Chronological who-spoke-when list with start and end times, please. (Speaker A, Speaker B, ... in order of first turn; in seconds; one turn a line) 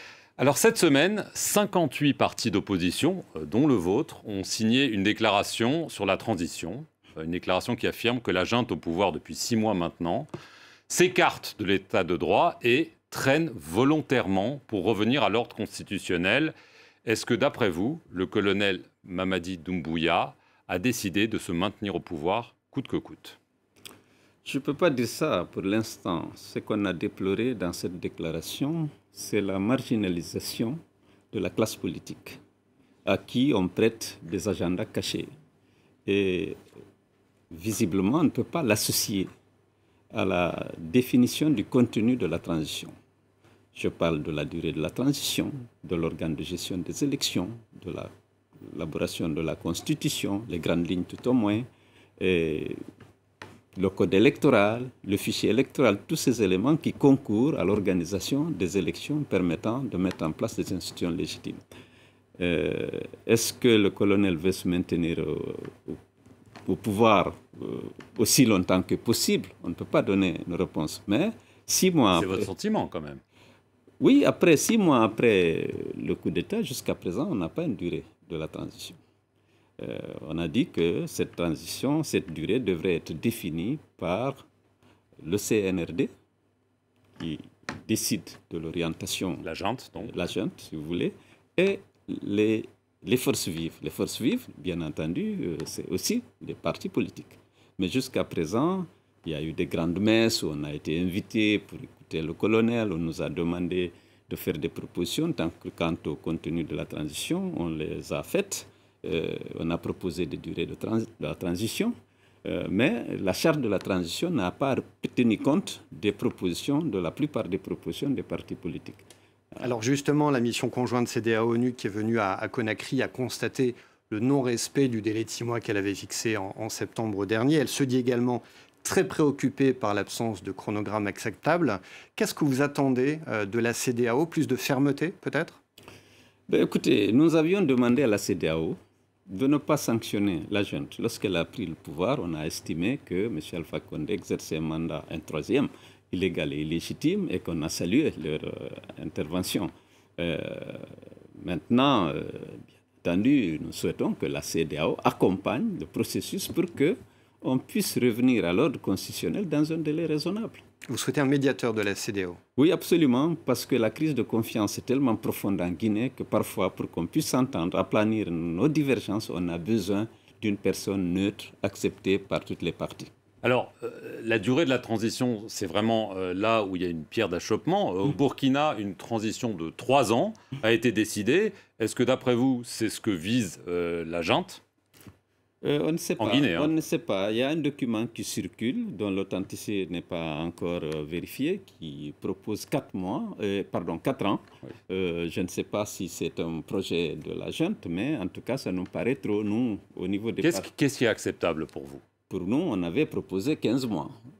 Speaker A: 0.4-10.3
Speaker A: 10.9-16.5
Speaker A: 17.0-23.4
Speaker B: 24.4-30.8
Speaker B: 31.3-32.4
Speaker B: 33.0-35.3
Speaker B: 36.0-36.6
Speaker B: 37.5-39.3
Speaker B: 40.1-42.9
Speaker B: 43.7-48.1
Speaker B: 48.6-51.7
Speaker B: 52.2-52.8
Speaker B: 53.8-61.6
Speaker B: 62.4-66.0
Speaker B: 66.6-72.5
Speaker A: 72.1-73.2
Speaker B: 74.0-79.0
Speaker B: 79.8-84.4
Speaker B: 85.2-86.1
Speaker B: 87.2-111.9
Speaker A: 89.4-90.1
Speaker B: 112.4-119.0
Speaker C: 119.6-135.6
Speaker B: 136.5-138.8
Speaker B: 139.3-160.6
Speaker C: 160.9-162.4
Speaker B: 162.6-173.1
Speaker A: 173.4-184.6
Speaker B: 185.6-200.7
Speaker A: 186.2-186.7
Speaker A: 200.4-202.0
Speaker B: 202.3-204.2